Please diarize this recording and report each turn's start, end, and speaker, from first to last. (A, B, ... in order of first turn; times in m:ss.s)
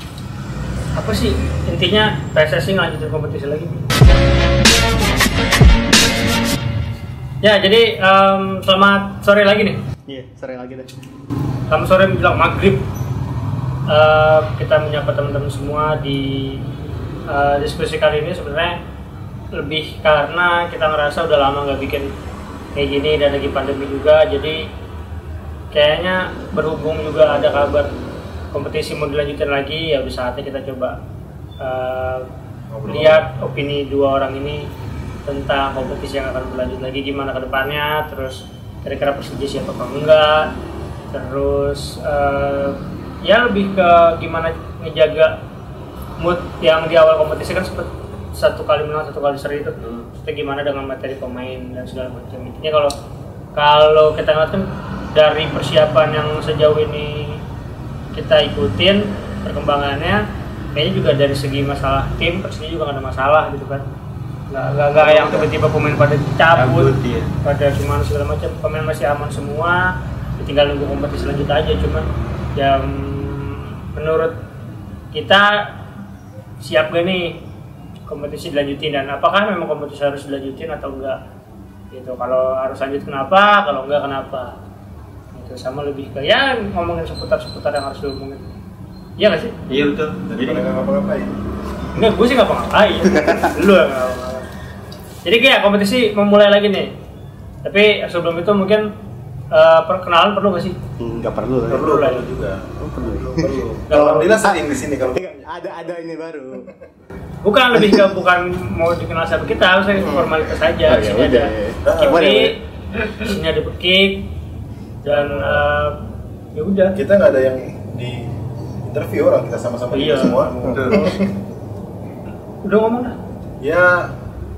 0:00.9-0:03.9 A
0:07.4-0:09.8 A
0:10.1-0:10.9 B
0:11.7-0:12.8 A
0:13.9-0:16.6 A
0:17.3-0:18.8 A
0:19.5-0:22.1 A
0:22.7-0:24.6 A
0:25.7-0:27.9 A
0:28.5-0:31.0 A
0:31.6-0:32.3 A
0:32.7-0:33.3 C
0:32.9-0:34.6 A
0:35.3-0:40.5 A
0:41.1-0:45.4 A
0:46.2-0:52.9 A
0:49.8-0:50.1 D
0:53.5-0:57.4 A
0:58.1-1:00.2 A
1:00.7-1:03.8 A
1:04.5-1:14.4 A
1:05.0-1:05.5 C
1:06.5-1:07.3 D
1:15.1-1:15.8 A
1:16.6-1:17.4 A
1:18.1-1:21.2 A
1:21.9-1:24.6 A
1:25.3-1:28.4 A
1:29.2-1:29.6 A
1:29.7-1:30.6 D
1:30.3-1:31.3 C
1:31.9-1:34.4 A
1:33.1-1:33.5 B
1:35.2-1:36.9 A
1:37.6-1:38.9 A
1:39.5-1:40.8 A
1:41.0-1:42.0 B
1:41.7-1:45.9 C
1:41.8-1:42.3 A
1:42.8-1:46.7 B
1:43.9-1:44.4 A
1:47.4-1:52.6 A
1:49.9-1:50.4 C
1:50.8-1:52.5 B
1:51.8-1:52.2 C
1:53.1-1:54.3 A
1:55.0-1:56.0 A
1:55.0-1:55.6 C
1:56.5-1:57.0 A
1:56.9-1:58.3 C
1:58.8-2:01.3 C
1:59.9-2:00.5 A
2:00.7-2:01.1 D
2:02.6-2:03.2 A
2:03.6-2:04.1 C